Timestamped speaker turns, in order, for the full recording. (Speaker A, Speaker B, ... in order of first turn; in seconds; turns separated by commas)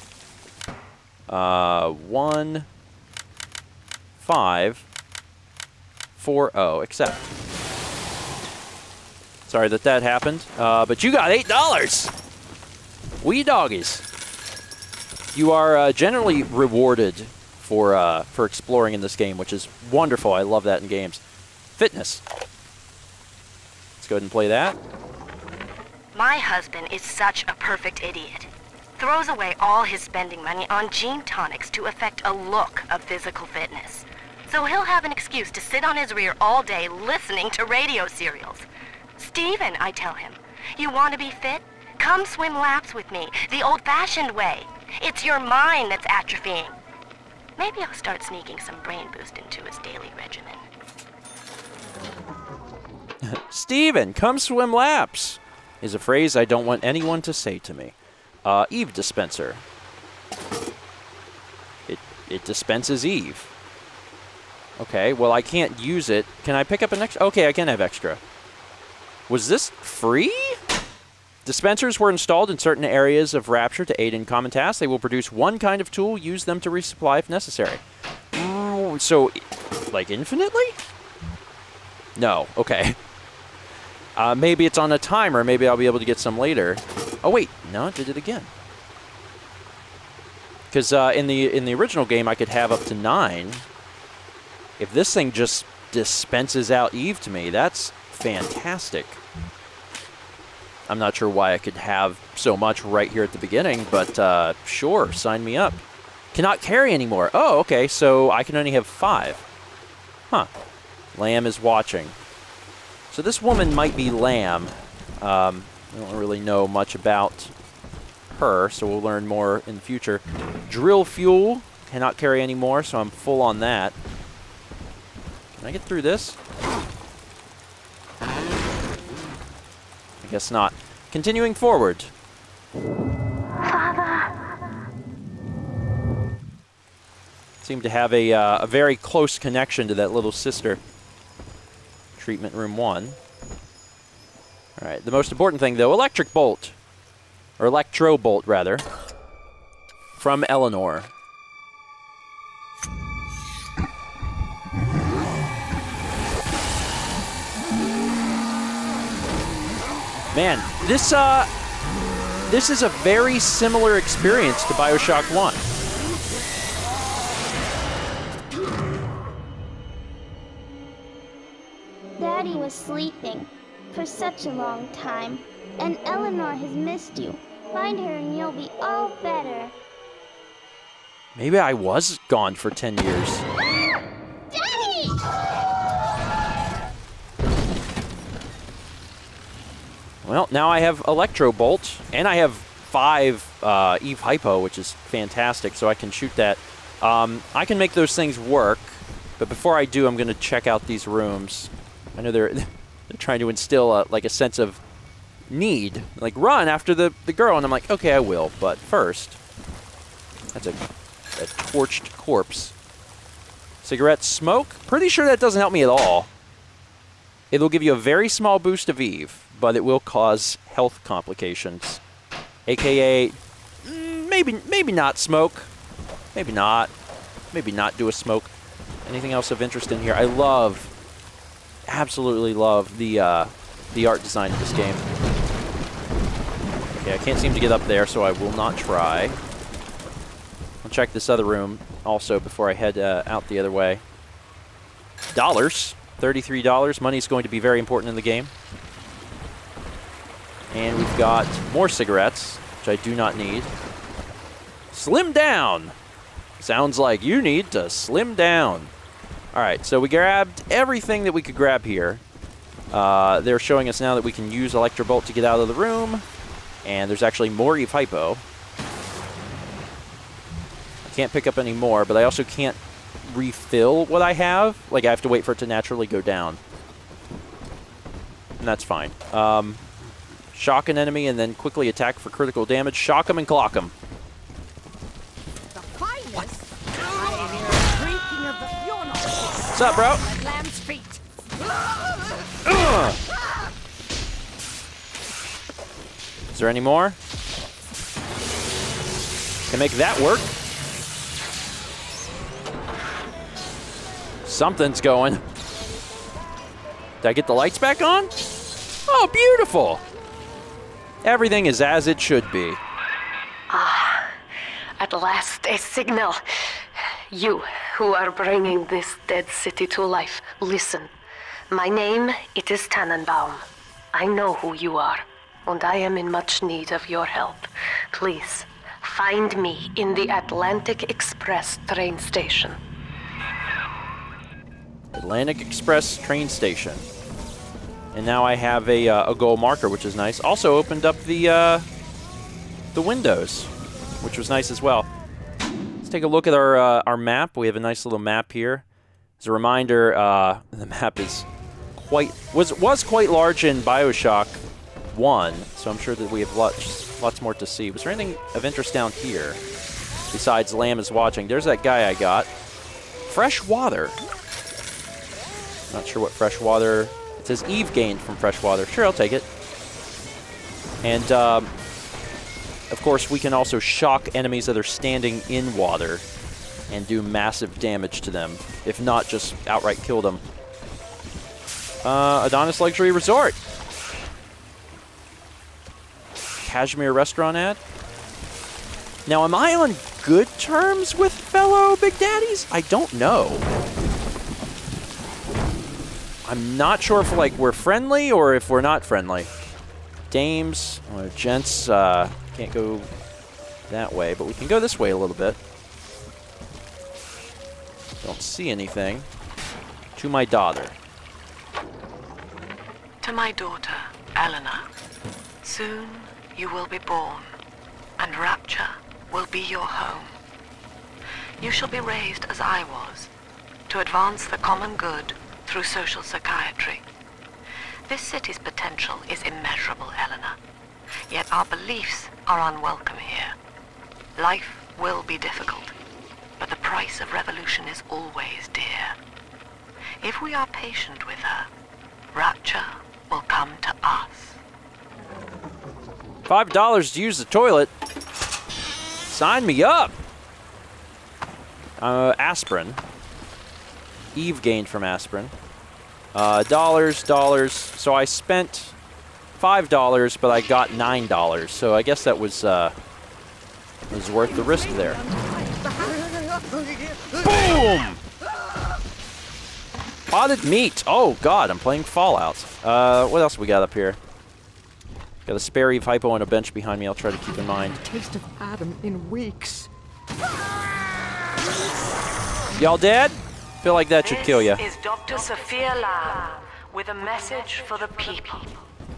Speaker A: 1.3-2.7, Speaker A: 4.2-4.8, Speaker A: 6.2-7.2, Speaker A: 9.5-12.1, Speaker A: 13.2-14.1, Speaker A: 15.3-21.2, Speaker A: 21.8-22.2, Speaker A: 24.0-24.8, Speaker B: 26.1-38.7, Speaker B: 39.2-46.8, Speaker B: 47.6-50.6, Speaker A: 53.2-59.6, Speaker A: 61.9-63.5, Speaker A: 64.8-68.2, Speaker A: 69.3-70.6, Speaker A: 71.5-77.8, Speaker A: 78.3-79.4, Speaker A: 79.9-80.8, Speaker A: 82.2-83.0, Speaker A: 84.2-88.5, Speaker A: 90.7-93.7, Speaker A: 94.8-99.2, Speaker A: 100.9-105.8, Speaker A: 106.3-109.4, Speaker A: 111.1-112.2, Speaker A: 113.1-117.5, Speaker A: 118.3-124.0, Speaker A: 125.6-126.4, Speaker A: 130.2-132.1, Speaker A: 137.6-140.8, Speaker A: 142.2-143.2, Speaker A: 144.8-146.8, Speaker A: 147.6-148.8, Speaker A: 150.2-151.1, Speaker A: 160.3-161.5, Speaker A: 162.5-165.6, Speaker C: 172.2-179.7, Speaker A: 181.4-183.5, Speaker C: 184.6-185.1, Speaker A: 190.2-204.8, Speaker A: 205.5-209.4, Speaker A: 210.5-210.8, Speaker A: 211.4-212.7, Speaker A: 213.8-216.3, Speaker A: 217.5-222.0, Speaker A: 222.7-225.7, Speaker A: 226.3-226.9, Speaker A: 227.5-228.5, Speaker A: 229.1-230.9, Speaker A: 231.9-235.0, Speaker A: 237.0-239.4, Speaker A: 240.8-244.0, Speaker A: 245.3-248.5, Speaker A: 250.7-253.7, Speaker A: 254.9-255.9, Speaker A: 256.6-258.9, Speaker A: 259.5-262.2, Speaker A: 262.9-266.2, Speaker A: 266.8-268.4, Speaker A: 271.1-276.6, Speaker A: 278.6-279.9, Speaker A: 280.5-283.9, Speaker D: 285.7-291.2, Speaker A: 289.7-290.2, Speaker A: 292.6-293.2, Speaker A: 296.5-297.2, Speaker A: 299.7-300.5, Speaker A: 304.4-305.4, Speaker A: 307.2-308.3, Speaker A: 309.1-310.0, Speaker A: 311.2-312.8, Speaker E: 313.7-314.4, Speaker E: 315.0-321.1, Speaker E: 321.7-332.8, Speaker A: 335.1-337.1, Speaker A: 338.1-341.9, Speaker A: 342.9-345.1, Speaker A: 346.0-348.8, Speaker A: 349.4-359.6, Speaker A: 360.3-362.5, Speaker A: 363.3-364.2, Speaker A: 365.9-369.5, Speaker A: 371.0-371.7, Speaker A: 372.9-376.2, Speaker A: 376.9-380.4, Speaker A: 382.0-383.6, Speaker A: 386.6-387.8, Speaker A: 389.3-393.6, Speaker A: 396.4-399.5, Speaker A: 400.3-403.1, Speaker A: 403.9-405.6, Speaker A: 408.2-409.3, Speaker A: 410.2-411.0, Speaker F: 413.2-414.9, Speaker F: 415.6-417.5, Speaker F: 418.2-420.4, Speaker F: 421.6-423.3, Speaker F: 423.9-427.1, Speaker F: 428.1-430.6, Speaker F: 431.3-433.6, Speaker F: 434.4-435.9, Speaker F: 436.6-439.2, Speaker F: 440.2-441.7, Speaker F: 442.3-444.6, Speaker A: 446.5-447.9, Speaker A: 449.3-450.2, Speaker A: 452.0-453.0, Speaker A: 454.4-455.5, Speaker A: 456.3-458.9, Speaker A: 459.6-462.9, Speaker A: 464.1-465.2, Speaker D: 464.4-467.9, Speaker A: 467.4-468.2, Speaker A: 470.3-474.2, Speaker A: 475.5-478.0, Speaker D: 477.9-479.9, Speaker A: 482.8-484.8, Speaker F: 484.2-488.8